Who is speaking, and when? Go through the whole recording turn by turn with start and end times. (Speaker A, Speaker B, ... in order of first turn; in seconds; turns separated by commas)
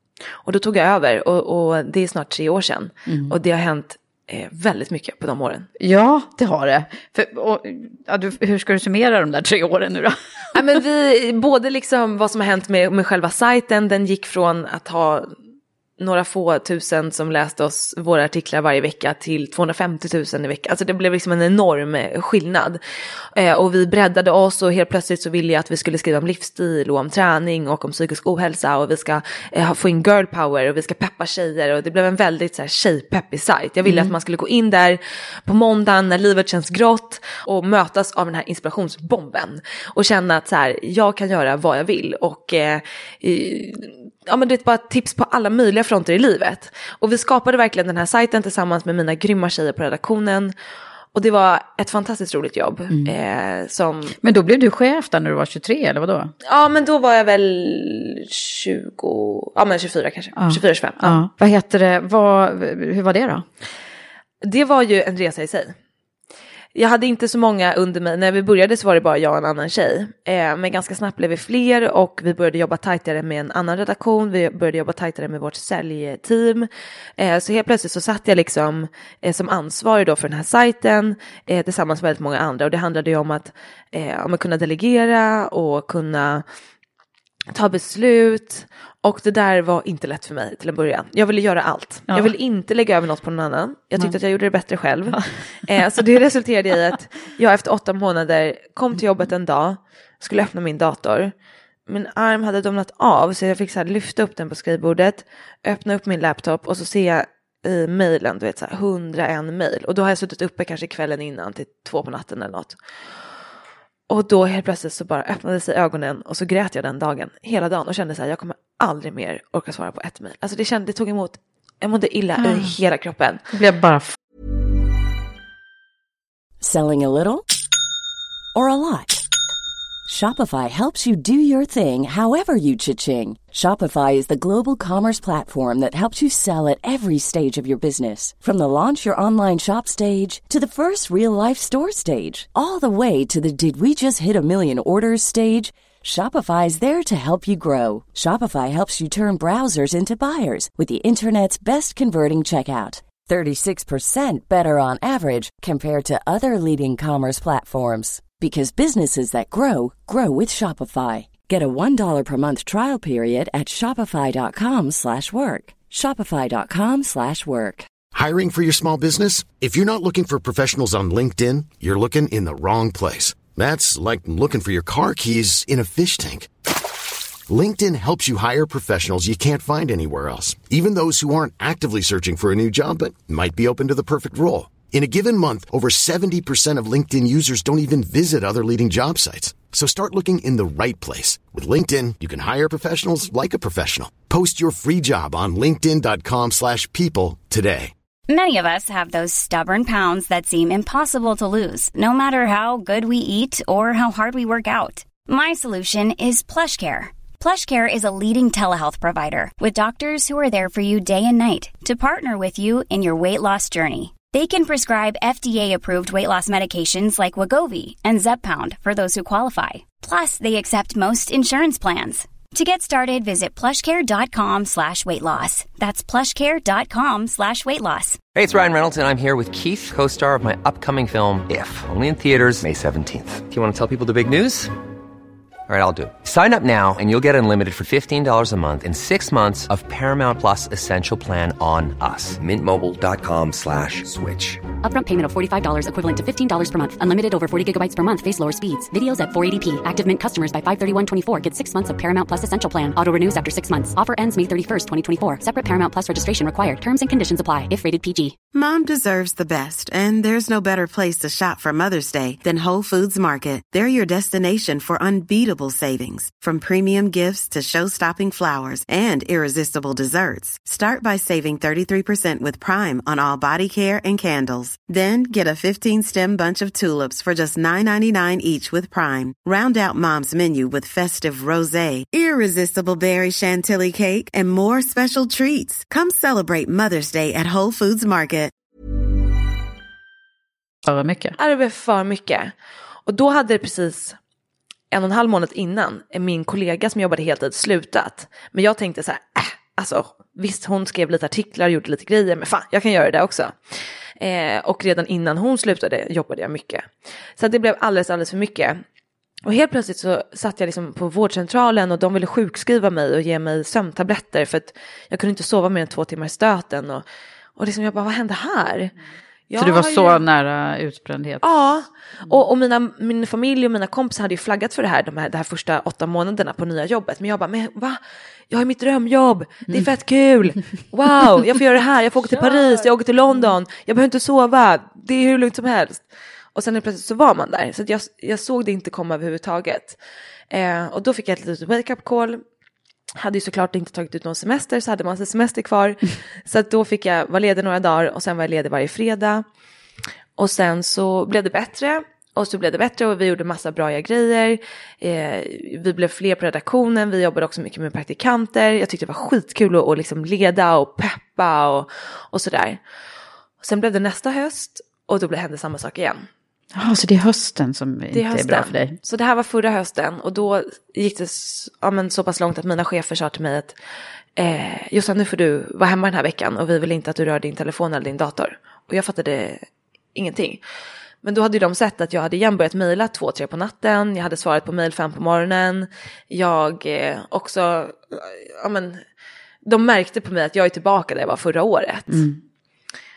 Speaker A: 0.4-5.7, Speaker B: 3.1-3.4, Speaker B: 5.8-10.2, Speaker A: 10.5-15.3, Speaker A: 16.0-22.8, Speaker A: 23.3-50.5, Speaker B: 33.8-34.1, Speaker A: 51.1-54.1, Speaker B: 54.2-56.3, Speaker A: 56.4-61.2, Speaker B: 60.4-63.4, Speaker A: 64.4-65.7, Speaker A: 66.7-86.4, Speaker A: 87.5-101.3, Speaker B: 92.1-92.3, Speaker A: 101.9-112.8, Speaker A: 114.1-123.4, Speaker B: 122.4-122.7, Speaker B: 123.5-124.1, Speaker C: 126.6-127.4, Speaker C: 128.5-129.3, Speaker C: 130.1-167.9, Speaker D: 168.1-176.5, Speaker D: 177.5-197.9, Speaker E: 198.3-228.2, Speaker F: 228.3-234.7, Speaker F: 235.7-244.7, Speaker G: 244.8-258.4, Speaker H: 258.5-288.5, Speaker B: 290.8-291.4, Speaker A: 291.4-292.5, Speaker A: 293.1-294.1, Speaker A: 294.9-303.6, Speaker A: 304.2-308.8, Speaker A: 309.4-317.0, Speaker A: 317.6-318.9, Speaker A: 319.5-320.2, Speaker B: 319.6-321.4, Speaker A: 321.4-336.0, Speaker B: 332.3-332.9, Speaker A: 336.5-340.0, Speaker A: 340.5-342.4, Speaker A: 343.1-349.4, Speaker A: 350.4-362.8, Speaker A: 363.6-366.3, Speaker B: 366.7-369.0, Speaker A: 368.1-373.7, Speaker A: 374.4-380.6, Speaker A: 381.2-389.0, Speaker A: 389.6-392.2, Speaker B: 392.1-392.4